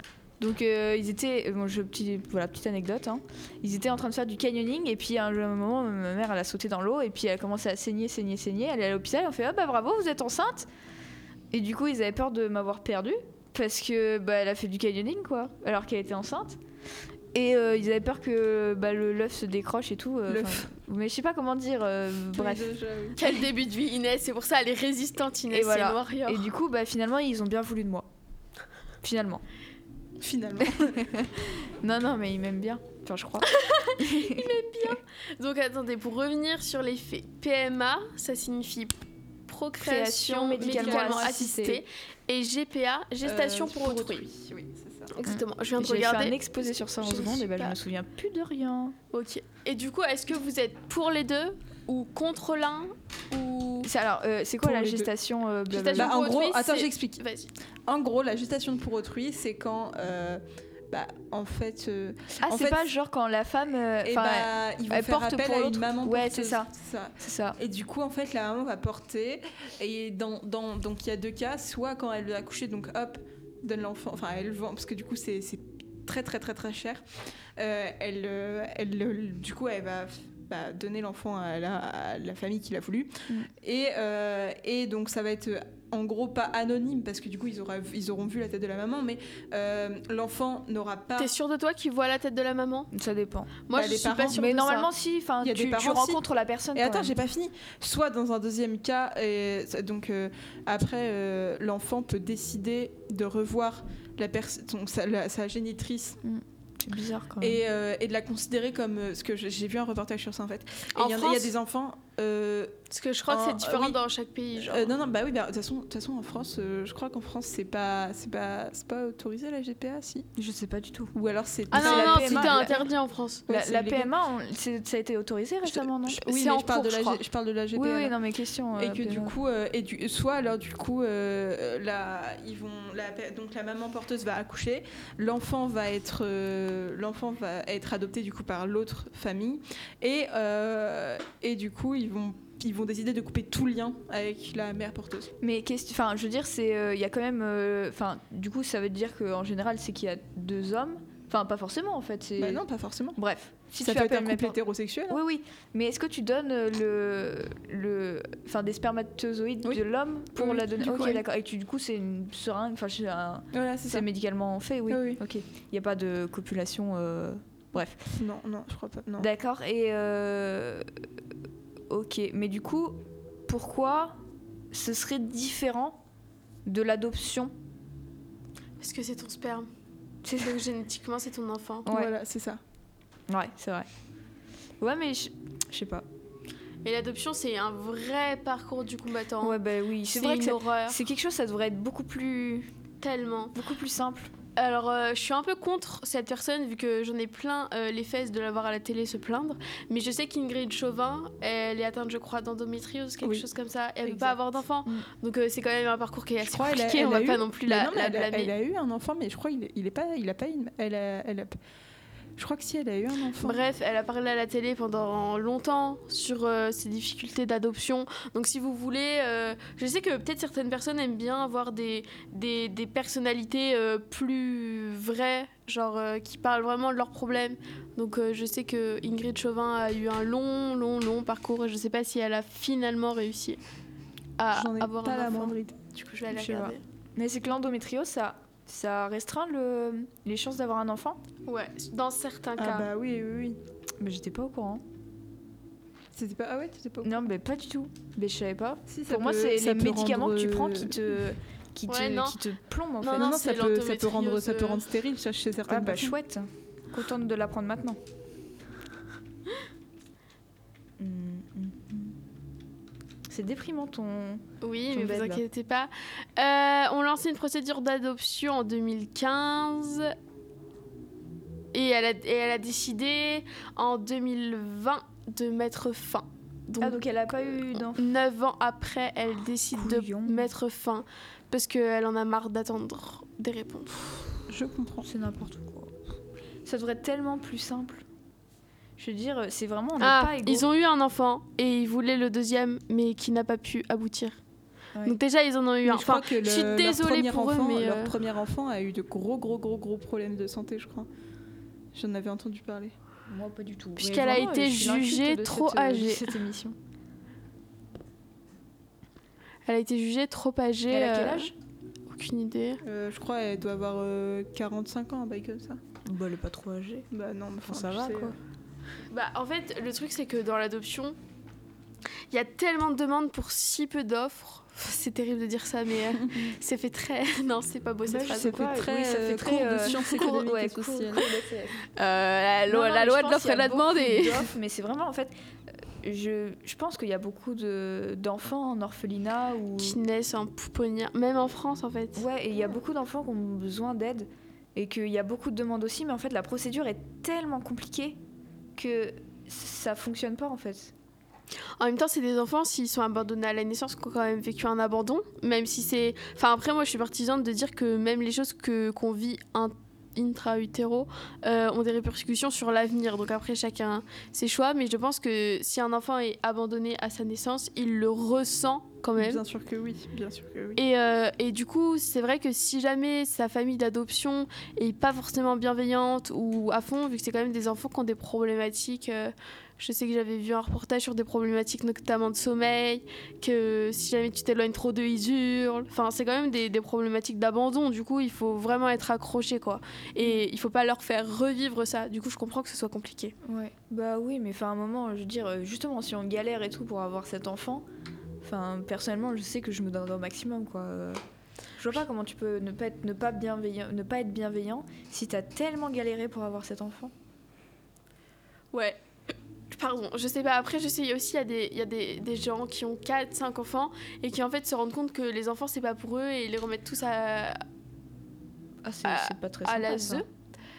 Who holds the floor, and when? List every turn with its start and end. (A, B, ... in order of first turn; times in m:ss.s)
0:00.4-0:10.7 A
0:11.5-0:16.6 A
0:17.3-0:22.6 A
0:20.3-0:20.7 B
0:22.3-0:23.3 B
0:23.2-0:26.5 C
0:25.5-0:28.1 A
0:29.0-0:29.4 A
0:30.2-0:31.0 B
0:30.6-0:35.0 A
0:33.5-0:44.2 C
0:39.8-0:41.8 A
0:40.6-0:41.4 B
0:43.2-0:45.1 B
0:45.1-0:47.8 C
0:45.2-0:48.9 A
0:49.1-0:53.9 C
0:53.8-0:56.2 A
0:54.6-0:55.1 B
0:55.7-0:57.5 C
0:55.9-0:57.2 B
0:57.8-1:02.9 B
1:02.4-1:07.6 A
1:04.0-1:17.0 B
1:17.6-1:31.3 B
1:31.2-1:32.9 C
1:32.9-1:33.5 A
1:33.6-1:34.9 C
1:33.7-1:34.4 B
1:34.1-1:37.2 A
1:35.4-1:36.2 B
1:36.7-1:46.2 B
1:46.2-1:47.6 A
1:47.4-1:52.7 B
1:50.9-1:51.5 C
1:52.9-1:54.9 C
1:53.3-1:54.0 B
1:54.6-2:00.3 B
2:00.4-2:01.1 A
2:01.1-2:02.8 B
2:01.7-2:03.4 C
2:01.7-2:02.9 A
2:03.5-2:04.1 B
2:03.5-2:06.2 A
2:05.7-2:08.1 B
2:06.2-2:07.2 C
2:07.7-2:09.3 A
2:08.8-2:25.3 B
2:25.4-2:32.6 A
2:32.4-2:33.2 B
2:33.2-2:34.6 A
2:33.8-2:35.2 B
2:35.1-2:48.0 A
2:40.3-2:41.2 B
2:43.5-2:44.0 B
2:44.9-2:45.2 B
2:48.1-2:49.3 B
2:49.2-2:50.9 A
2:51.9-2:54.2 A
2:54.7-2:56.0 A
2:56.6-2:57.5 A
2:58.8-2:59.7 C
3:00.2-3:00.6 A
3:00.4-3:01.8 C
3:01.8-3:02.1 A
3:01.9-3:02.6 B
3:03.3-3:03.9 A
3:04.8-3:06.0 A
3:06.8-3:11.0 C
3:09.4-3:12.7 A
3:13.0-3:13.5 C
3:13.5-3:14.3 A
3:14.6-3:28.5 C
3:23.2-3:23.5 B
3:24.0-3:24.6 B
3:26.4-3:31.6 B
3:32.4-3:33.6 B
3:33.4-3:53.6 C
3:54.4-3:56.8 C
3:54.5-3:55.8 B
3:56.3-4:01.2 A
4:01.5-4:02.9 C
4:02.6-4:03.6 B
4:04.0-4:04.8 A
4:06.1-4:07.2 B
4:07.0-4:13.4 A
4:08.9-4:11.0 B
4:11.9-4:12.4 C
4:13.0-4:14.8 C
4:13.1-4:16.1 B
4:15.6-4:18.0 A
4:21.0-4:22.1 A
4:23.3-4:25.4 A
4:24.6-4:30.1 C
4:31.7-4:37.0 C
4:36.8-4:38.0 A
4:37.9-4:44.3 C
4:39.7-4:40.5 A
4:44.5-4:45.1 B
4:45.0-4:46.0 A
4:46.6-4:48.0 A
4:49.0-4:50.7 A
4:50.0-4:54.4 C
4:55.0-4:58.1 C
4:55.8-5:01.1 B
5:01.9-5:02.9 B
5:03.3-5:06.8 A
5:04.0-5:06.3 C
5:09.7-5:11.5 C
5:10.9-5:11.5 A
5:12.1-5:12.8 C
5:12.8-5:15.8 B
5:16.0-5:17.1 A
5:17.1-5:18.4 B
5:17.6-5:18.4 A
5:19.1-5:21.2 C
5:22.3-5:28.6 C
5:26.2-5:26.5 B
5:28.0-5:31.7 B
5:28.3-5:31.4 A
5:29.8-5:30.3 C
5:32.0-5:34.5 C
5:32.7-5:35.3 A
5:36.0-5:40.0 A
5:39.8-5:42.2 C
5:42.1-5:48.2 A
5:48.7-5:50.9 A
5:51.8-6:09.4 C
6:09.2-6:10.8 B
6:10.8-6:33.3 C
6:33.4-6:37.8 A
6:38.4-6:41.2 A
6:41.8-6:47.1 A
6:48.7-6:49.0 C
6:49.7-6:57.6 C
6:58.8-7:00.2 A
6:59.0-7:00.2 C